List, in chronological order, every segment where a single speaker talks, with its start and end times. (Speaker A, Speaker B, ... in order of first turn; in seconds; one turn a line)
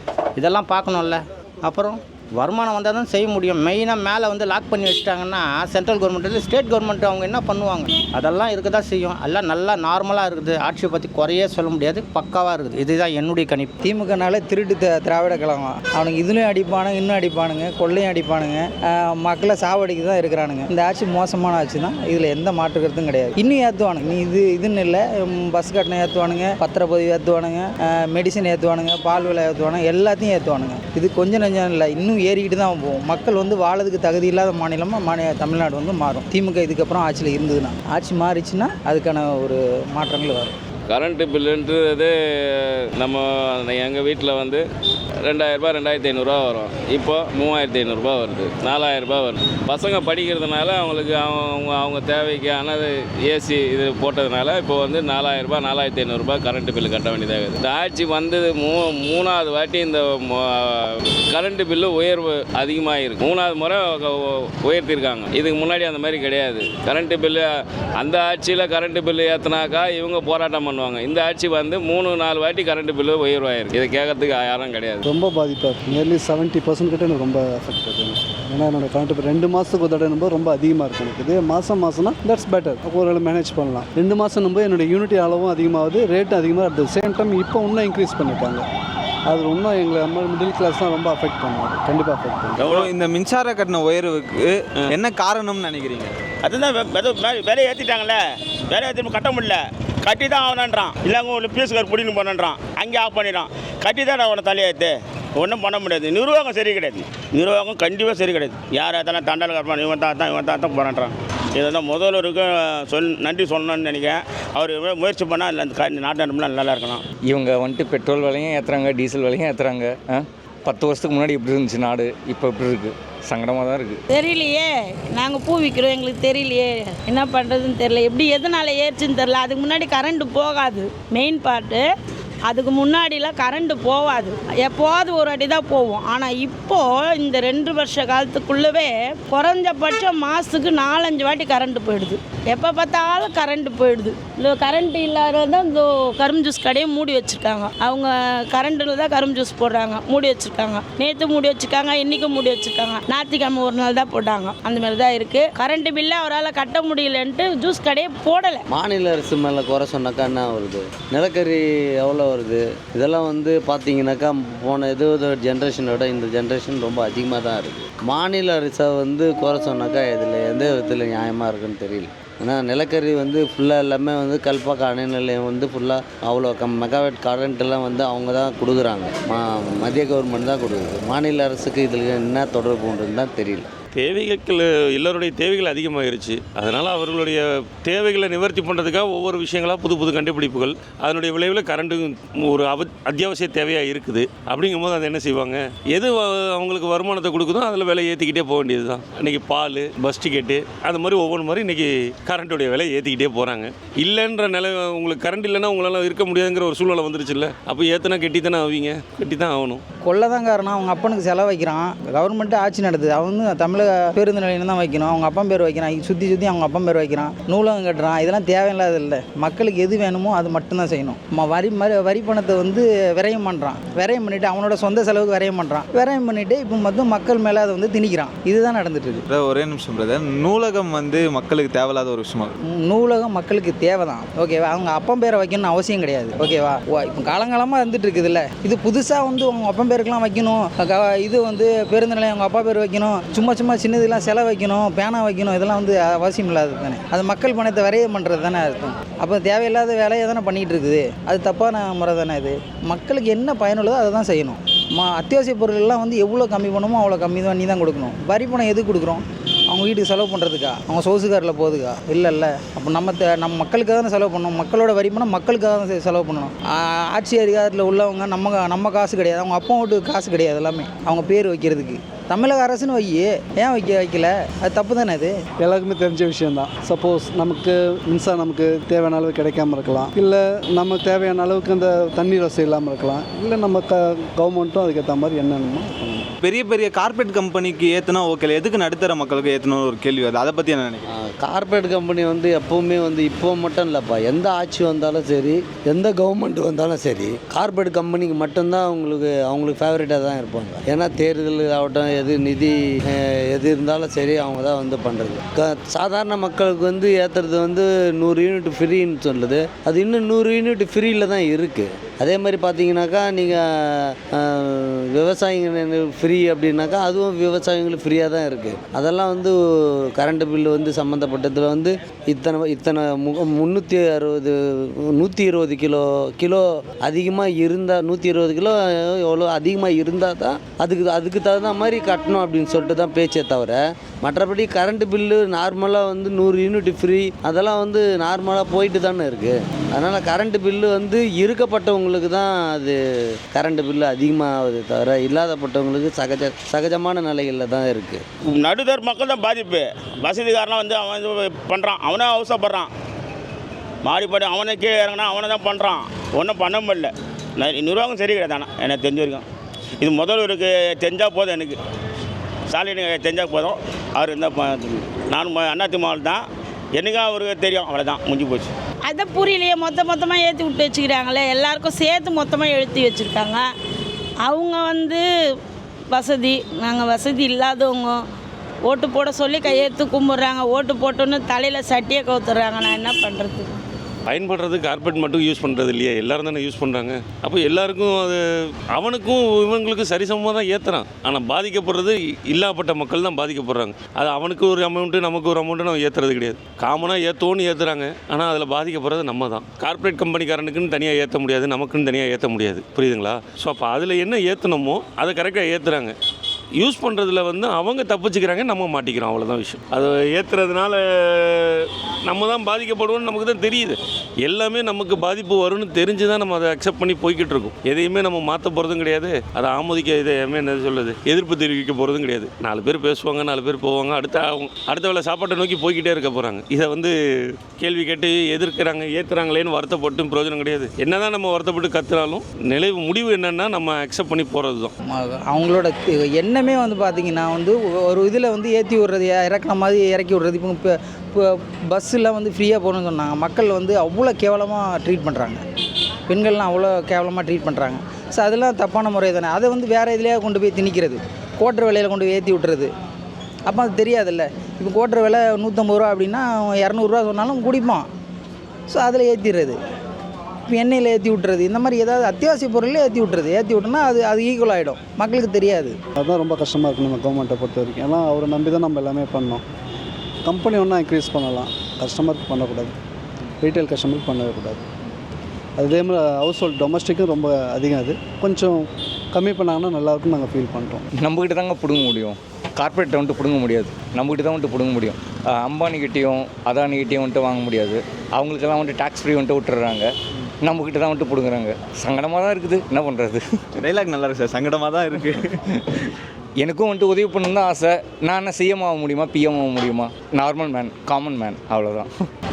Speaker A: 0.4-13.7
Speaker B: 13.8-40.5
Speaker C: 40.9-44.6
Speaker C: 45.2-75.1
Speaker D: 75.1-88.6
Speaker D: 89.3-92.7
Speaker E: 92.6-93.0
Speaker F: 92.7-96.1
Speaker E: 96.4-117.0
Speaker G: 117.3-124.0
Speaker H: 124.1-131.8
Speaker H: 132.5-158.6
Speaker I: 158.7-183.7
Speaker J: 183.9-209.8
Speaker B: 210.0-229.2
Speaker F: 229.3-232.5
Speaker B: 232.8-275.4
Speaker D: 275.6-286.3
Speaker F: 286.4-291.1
Speaker I: 291.1-348.2
Speaker E: 348.5-352.9
Speaker E: 354.0-359.4
Speaker E: 360.0-361.8
Speaker E: 362.7-366.4
Speaker E: 366.9-368.7
Speaker H: 369.1-373.6
Speaker H: 374.4-375.2
Speaker H: 376.1-378.2
Speaker H: 378.9-383.7
Speaker J: 384.3-388.4
Speaker J: 388.9-406.1
Speaker J: 406.8-427.1
Speaker J: 427.8-434.9
Speaker B: 435.1-445.6
Speaker B: 446.3-452.9
Speaker B: 453.6-458.1
Speaker B: 458.9-459.8
Speaker B: 460.7-465.9
Speaker D: 466.2-469.6
Speaker D: 470.4-472.9
Speaker D: 473.6-474.8
Speaker D: 475.8-481.1
Speaker G: 481.2-490.1
Speaker G: 490.6-493.4
Speaker F: 493.8-495.4
Speaker G: 496.6-502.1